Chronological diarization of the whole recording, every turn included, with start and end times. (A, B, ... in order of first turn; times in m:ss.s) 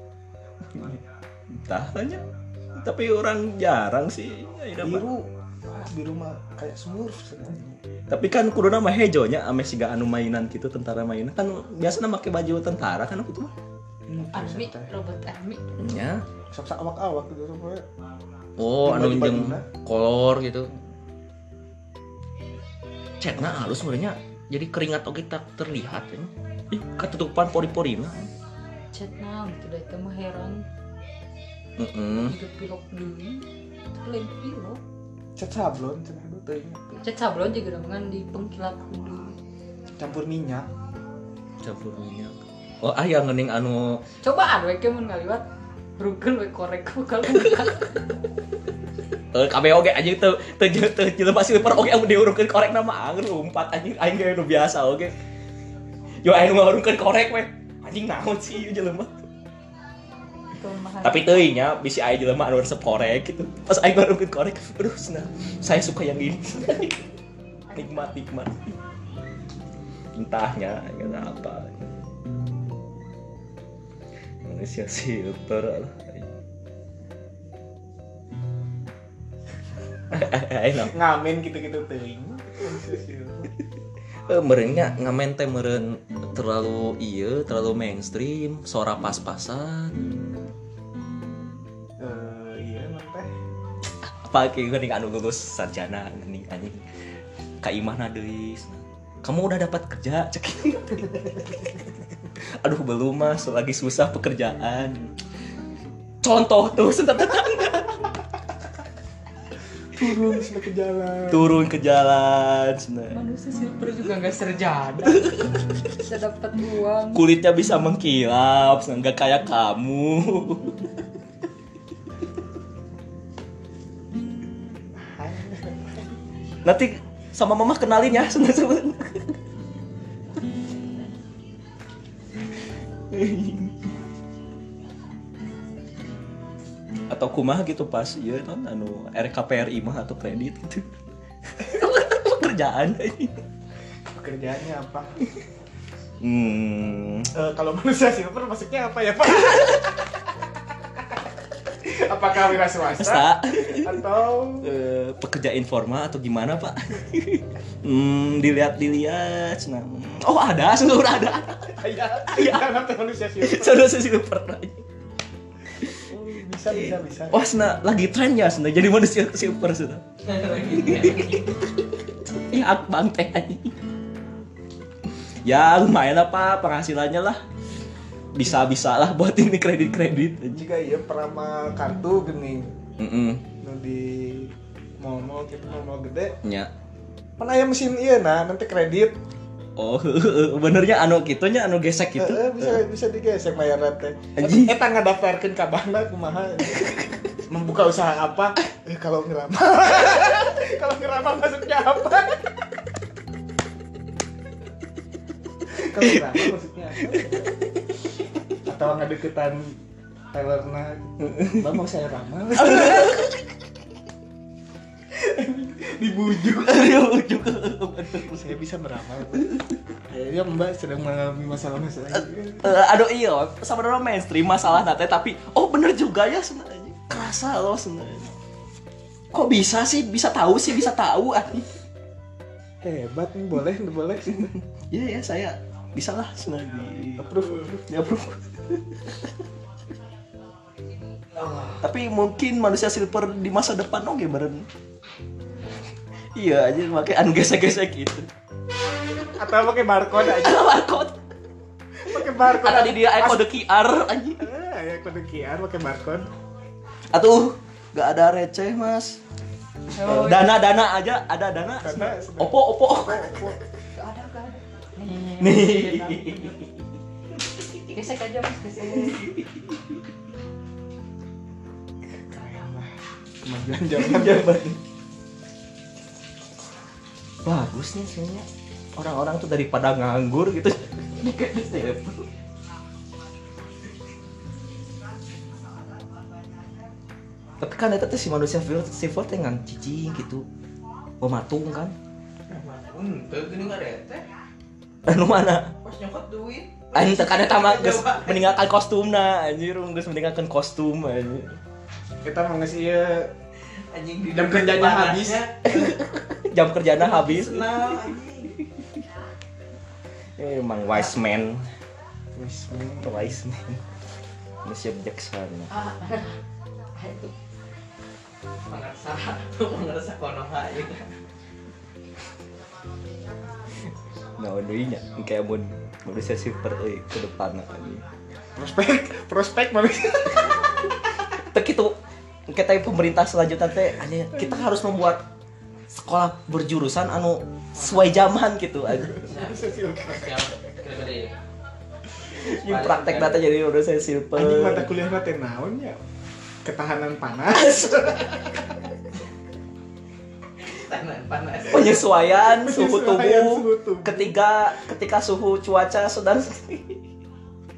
0:01.5-0:02.2 A
0:02.7-0:05.1 A
0:04.8-0:07.8 B
0:08.1-0:13.5 A
0:14.1-0:15.6 C
0:14.2-0:14.9 B
0:15.8-0:16.2 A
0:16.5-0:17.9 B
0:18.6-0:20.7 A
0:18.8-0:19.6 B
0:23.2-0:28.3 A
0:28.9-0:30.6 C
0:31.8-0:32.4 A
0:32.2-0:34.8 C
0:35.4-0:37.0 B
0:37.0-0:39.4 C
0:40.0-0:40.7 B
0:41.6-0:44.0 A
0:44.2-0:45.4 C
0:46.0-0:48.1 C
0:49.3-0:55.1 A
0:56.2-0:59.1 A
1:00.6-1:01.5 C
1:01.0-1:07.0 A
1:07.7-1:08.0 C
1:07.7-1:08.6 A
1:10.1-1:11.8 A
1:14.4-1:16.3 A
1:20.1-1:20.9 A
1:20.9-1:23.5 B
1:24.3-1:30.1 A
1:32.0-1:33.3 B
1:34.0-1:36.8 A
1:37.6-1:41.8 A
1:42.4-1:45.1 A
1:46.2-1:48.0 A
1:49.9-1:51.5 B
1:51.3-1:53.1 A
1:53.1-1:57.2 C
1:55.2-1:55.7 A
1:57.1-2:00.9 A
2:05.0-2:06.2 B
2:06.6-2:09.4 A
2:13.1-2:13.8 A
2:17.1-2:20.9 A
2:21.5-2:23.4 A
2:24.1-2:25.3 B
2:26.2-2:27.3 A
2:27.3-2:30.5 B
2:31.8-2:34.7 B
2:32.9-2:34.0 A
2:34.6-2:42.7 A
2:41.8-2:43.9 B
2:43.4-2:44.8 A
2:45.9-2:47.5 B
2:46.7-2:51.5 A
2:50.3-2:51.4 D
2:52.3-2:53.7 A
2:55.4-2:57.4 A
2:58.3-3:00.6 A
3:00.5-3:02.8 B
3:03.0-3:03.4 A
3:03.6-3:06.4 B
3:06.4-3:06.7 A
3:07.4-3:09.1 B
3:09.8-3:12.8 A
3:12.2-3:22.7 B
3:14.4-3:14.8 A
3:25.7-3:27.5 B
3:27.1-3:27.4 A
3:28.6-3:29.7 B
3:30.3-3:33.4 B
3:31.4-3:31.7 A
3:32.6-3:33.2 A
3:35.1-3:36.8 B
3:36.4-3:38.6 A
3:38.1-3:42.7 B
3:39.3-3:39.6 A
3:42.1-3:48.3 A
3:49.3-3:51.8 A
3:52.8-3:54.5 B
3:54.5-3:59.3 A
3:57.2-3:58.0 B
4:01.3-4:01.8 D
4:01.8-4:04.7 A
4:06.3-4:08.3 A
4:09.4-4:10.7 B
4:10.2-4:11.2 A
4:12.0-4:13.4 B
4:12.2-4:14.4 A
4:14.4-4:16.3 B
4:17.1-4:19.2 A
4:19.9-4:20.5 C
4:20.0-4:23.5 A
4:21.8-4:23.6 B
4:24.0-4:26.6 C
4:25.4-4:26.7 A
4:27.9-4:29.2 C
4:29.0-4:29.8 A
4:32.3-4:32.9 B
4:33.4-4:34.6 B
4:34.0-4:34.8 A
4:37.4-4:42.3 A
4:47.6-4:50.4 A
4:51.2-4:52.0 A
4:52.5-4:54.2 D
4:55.1-4:55.7 A
4:55.8-4:58.6 D
4:56.9-5:01.6 A
5:02.2-5:03.3 B
5:03.8-5:05.9 D
5:04.3-5:05.4 B
5:05.6-5:08.1 A
5:07.0-5:08.6 D
5:10.4-5:11.7 A
5:12.3-5:13.4 B
5:13.0-5:13.8 A
5:14.6-5:15.7 A
5:15.7-5:16.3 D
5:17.0-5:17.3 D
5:18.7-5:21.1 D
5:24.4-5:28.0 A
5:28.6-5:31.3 B
5:31.5-5:32.0 A
5:32.5-5:35.2 A
5:35.9-5:39.3 A
5:37.8-5:38.1 D
5:39.0-5:40.5 B
5:39.2-5:41.3 D
5:42.4-5:44.9 A
5:42.5-5:43.5 D
5:44.3-5:46.0 B
5:46.6-5:48.9 B
5:47.5-5:48.1 A
5:50.6-5:52.1 D
5:51.7-5:57.0 A
5:52.4-5:54.3 B